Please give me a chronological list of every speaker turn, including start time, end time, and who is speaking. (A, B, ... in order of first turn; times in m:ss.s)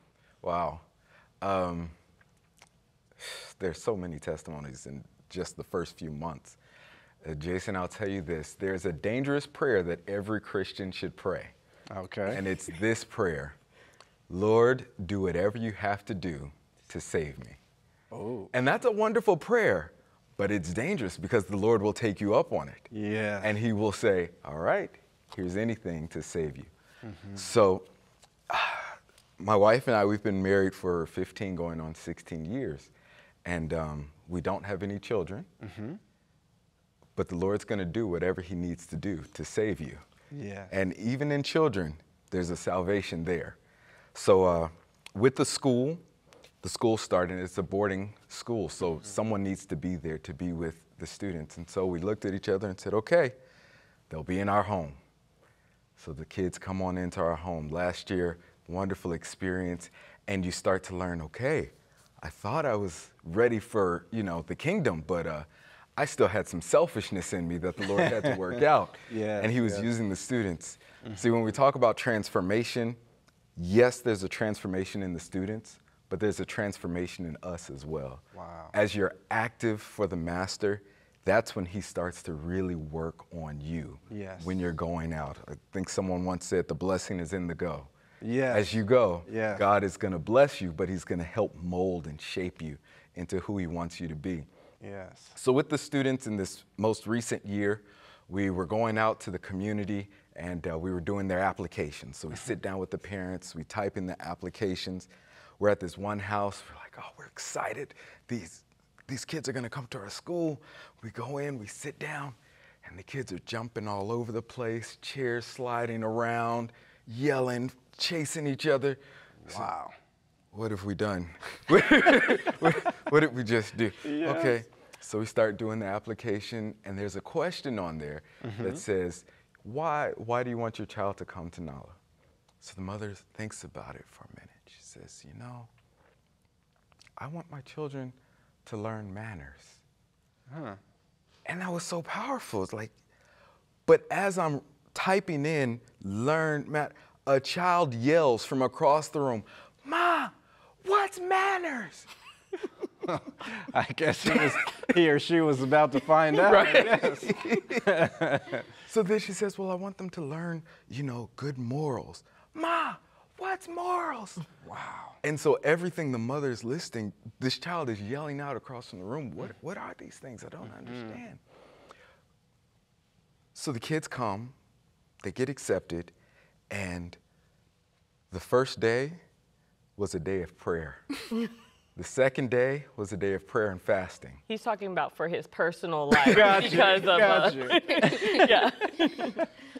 0:00.4-0:00.8 A
0:01.4-0:01.9 A
0:03.2-0:06.6 A
0:07.2-0:11.5 A
0:11.9-0:12.5 B
0:12.3-0:13.6 A
0:14.3-0:17.6 A
0:18.1-0:18.5 B
0:18.5-0:22.9 A
0:22.9-0:23.6 B
0:23.4-0:26.7 A
0:27.0-0:27.5 B
0:27.3-0:27.9 A
0:28.5-0:32.9 A
0:33.4-0:35.5 A
0:35.6-0:36.0 B
0:37.2-0:40.1 A
0:40.3-0:40.7 B
0:40.7-0:43.6 A
0:44.1-0:46.0 A
0:46.6-0:53.4 A
0:54.1-0:55.0 A
0:56.0-1:13.0 A
1:07.8-1:09.9 B
1:11.0-1:11.3 B
1:13.6-1:27.9 A
1:18.3-1:18.7 B
1:24.1-1:24.6 B
1:28.2-1:29.7 B
1:28.5-1:34.5 A
1:34.8-1:35.4 B
1:35.4-1:59.7 A
1:59.4-1:59.9 B
2:00.5-2:12.0 A
2:04.0-2:04.6 B
2:08.4-2:08.8 B
2:12.6-2:15.7 A
2:17.2-2:19.8 A
2:20.5-2:20.8 B
2:21.4-2:22.9 A
2:23.8-2:32.1 A
2:33.1-2:38.7 B
2:34.2-2:34.9 A
2:36.3-2:37.8 A
2:38.9-2:44.4 A
2:44.6-2:45.2 B
2:45.2-2:51.4 A
2:50.6-2:51.2 B
2:53.5-2:54.6 A
2:55.2-2:56.1 A
2:56.7-2:57.2 A
2:58.3-2:59.2 A
3:00.0-3:01.0 A
3:02.0-3:04.4 A
3:04.5-3:09.4 C
3:06.2-3:08.6 B